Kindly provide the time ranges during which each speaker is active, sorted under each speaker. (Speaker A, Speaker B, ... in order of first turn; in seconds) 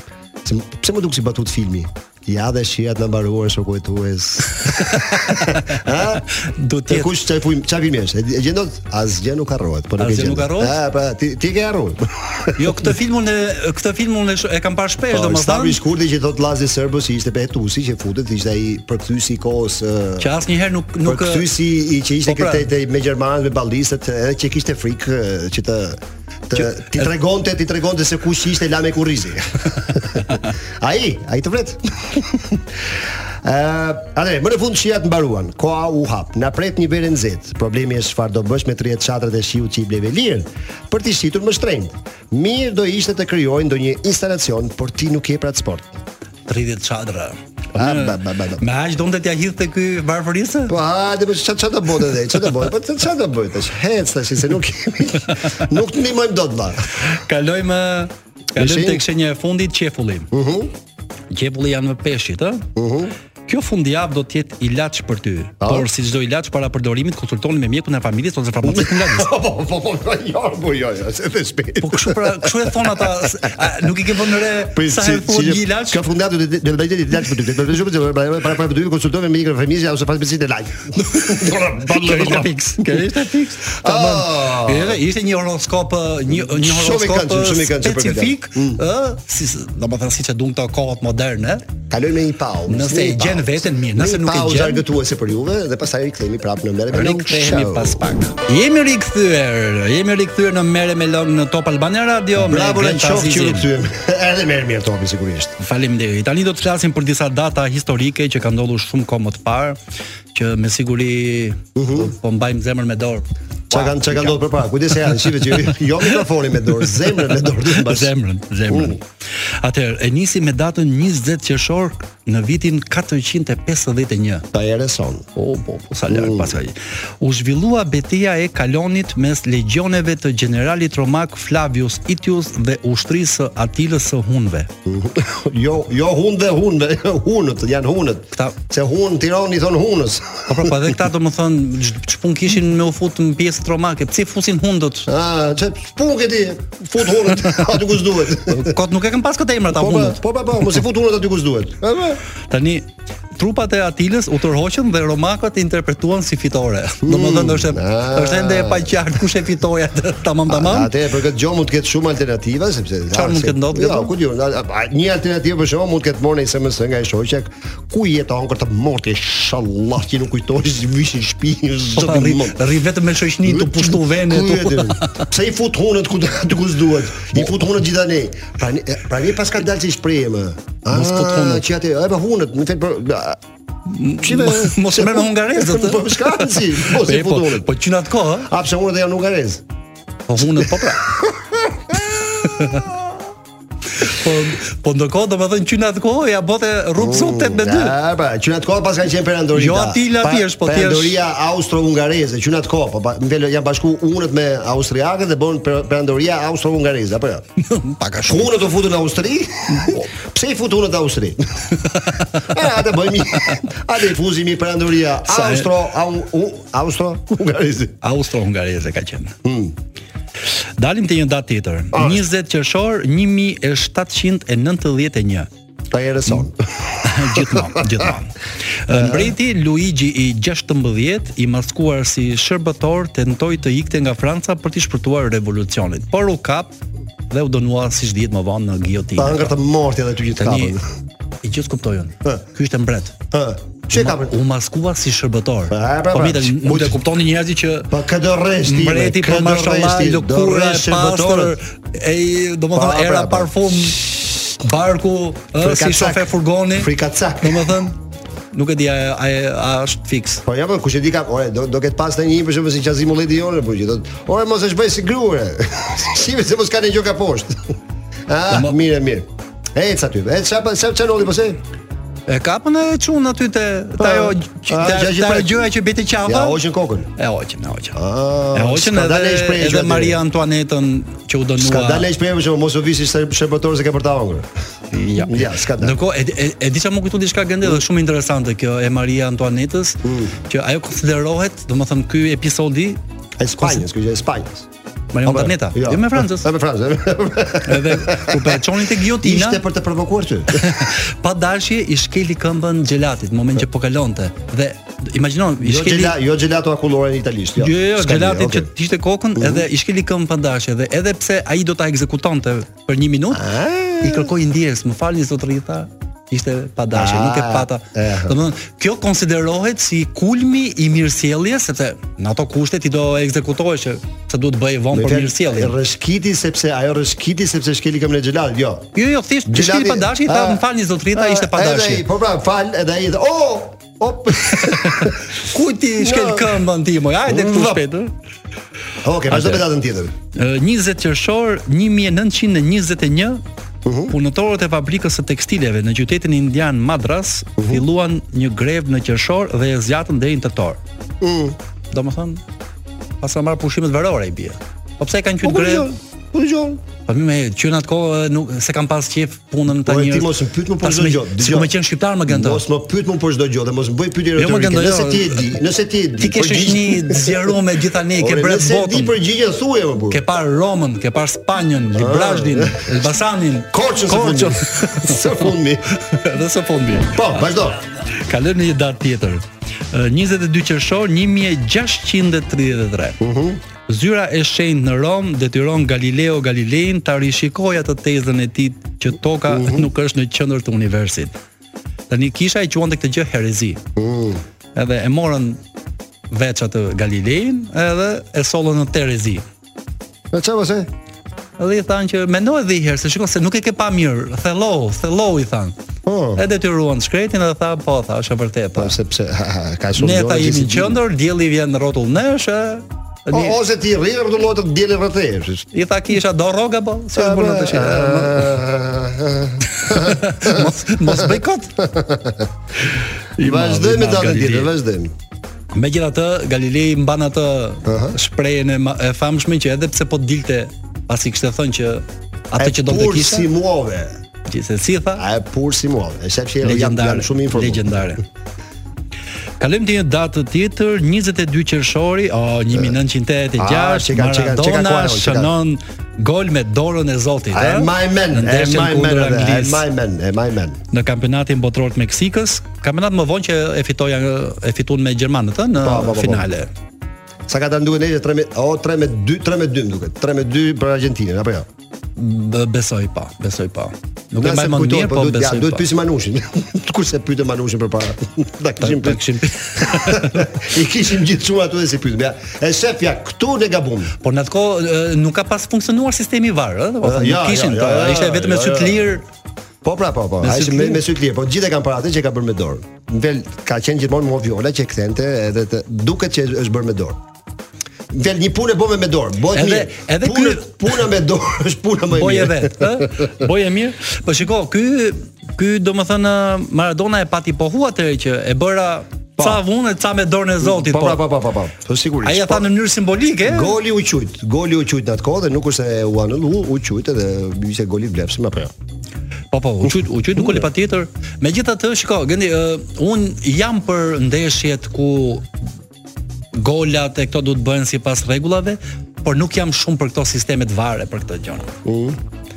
Speaker A: 0.4-6.2, 6.9-12.6, 15.1-20.3, 21.0-32.6, 33.4-46.0, 47.7-48.6, 50.7-56.9, 58.5-59.0, 60.3-60.7, 62.8-63.1, 65.6-65.9, 68.6-72.9, 74.6-83.0, 83.8-85.0, 86.3-88.8, 91.9-98.0, 102.3-105.5, 111.8-112.1, 113.7-118.1, 118.7-119.0, 124.5-125.3, 126.1-126.5, 134.8-140.9, 145.1-148.7, 149.7-152.2, 157.0-159.0, 160.5-172.6, 173.4-183.4, 184.2-187.7, 188.4-189.6, 190.4-193.0, 197.0-207.4, 208.2-211.7, 212.4-217.9, 219.4-219.7, 221.9-222.2, 225.9-228.1, 228.9-229.3, 239.2-240.8, 243.3-244.3, 245.7-247.0, 247.9-251.6, 252.7-254.3, 255.6-257.8, 260.4-267.7, 268.3-271.6, 274.0-275.6, 276.2-277.1, 277.9-280.2, 281.6-284.5, 285.1-286.0, 290.0-290.3, 293.4-294.7, 295.2-300.9, 305.6-308.7, 309.4-309.6, 313.3-314.3, 316.9-318.4, 324.9-328.9, 329.4-335.2, 336.0-336.6, 337.3-337.8, 339.0-340.1, 343.8-344.1, 347.6-347.8, 351.2-351.6, 355.4-356.8, 359.7-361.7, 362.3-367.5, 368.2-370.2, 371.9-373.1, 373.7-375.9, 377.1-377.8, 383.2-383.6, 389.5-389.9, 393.9-394.4, 400.3-400.9, 406.1-406.4, 408.8-411.0, 413.3-415.7, 417.1-422.5, 423.4-425.1, 427.8-428.1, 432.6-434.2, 435.2-438.1, 443.6-445.5, 447.5-450.8, 455.8-456.5, 457.5-461.7, 464.4-474.1, 477.0-479.1, 479.8-487.2, 488.1-493.3, 500.6-502.7, 503.4-508.7, 510.4-510.6, 521.8-522.2
Speaker B: 4.9-7.1, 10.0-10.8, 12.6-15.8, 20.2-21.5, 22.2-22.7, 46.5-50.7, 57.1-60.3, 61.3-62.7, 63.5-69.3, 71.8-76.0, 81.2-91.6, 92.7-94.8, 96.9-103.7, 105.6-109.8, 110.3-114.4, 115.2-115.7, 117.7-119.0, 119.6-124.5, 125.3-134.7, 140.5-145.1, 148.4-150.2, 152.5-152.8, 153.4-160.9, 163.1-164.1, 171.9-175.2, 180.9-181.7, 183.9-188.5, 190.3-191.1, 192.5-192.9, 194.0-197.9, 199.5-201.2, 207.6-208.6, 209.7-210.0, 211.9-212.5, 215.3-215.7, 218.0-219.3, 220.8-225.5, 227.0-228.3, 228.8-236.8, 237.3-239.5, 240.4-240.8, 241.4-243.2, 243.9-247.9, 248.6-254.0, 254.6-257.9, 258.5-260.4, 268.5-268.8, 272.3-276.6, 277.2-278.0, 278.5-282.1, 284.9-293.0, 293.6-293.8, 295.1-296.5, 297.6-299.6, 300.5-306.2, 307.6-313.5, 314.0-325.7, 328.9-332.0, 334.6-338.1, 339.3-339.6, 340.3-343.4, 344.1-350.8, 351.9-352.4, 353.2-355.9, 357.1-362.6, 364.4-365.5, 366.2-369.1, 370.1-375.2, 376.0-377.5, 378.1-383.2, 383.9-391.3, 392.1-393.8, 394.7-395.6, 396.3-399.4, 401.6-405.7, 406.4-408.9, 409.9-413.5, 415.7-418.6, 419.7-421.8, 423.4-424.7, 425.7-433.5, 434.5-435.2, 436.6-438.2, 439.6-449.8, 450.9-456.7, 462.1-465.9, 468.8-470.5, 474.2-479.2, 480.4-481.0, 489.5-490.8, 492.1-501.2, 502.2-503.7, 509.5-515.5, 516.5-521.7